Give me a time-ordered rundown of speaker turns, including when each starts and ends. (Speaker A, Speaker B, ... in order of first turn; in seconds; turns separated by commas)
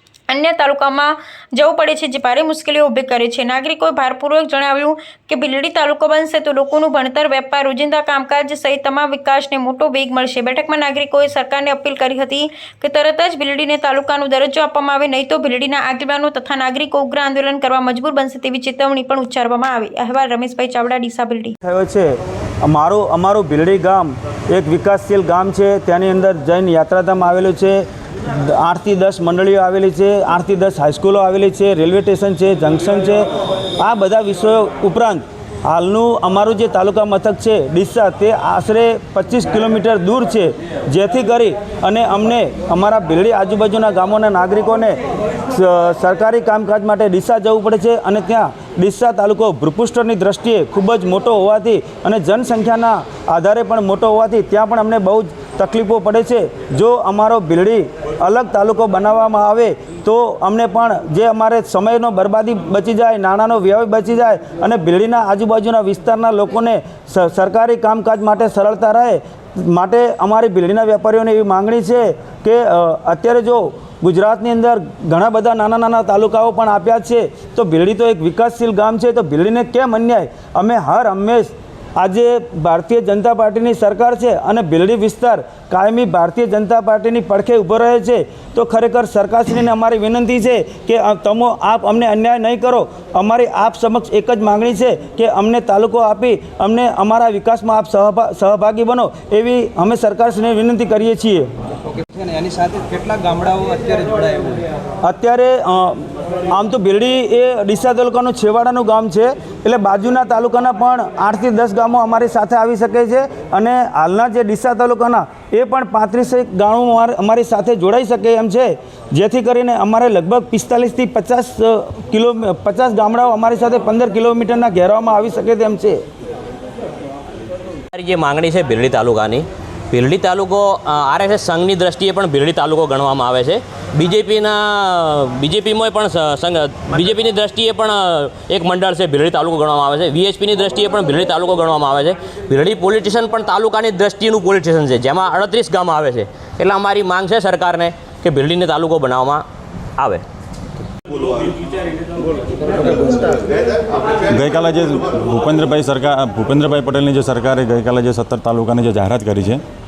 Speaker A: 0.3-21.6, Speaker B: 21.6-22.1, Speaker B: 22.6-27.8, Speaker B: 28.6-33.2, Speaker B: 33.8-45.0, Speaker B: 45.5-101.5, Speaker C: 102.1-104.7, Speaker B: 105.0-106.0, Speaker B: 106.5-126.0, Speaker D: 127.9-149.5, Speaker D: 150.0-150.2, Speaker C: 152.5-153.5, Speaker E: 154.3-159.6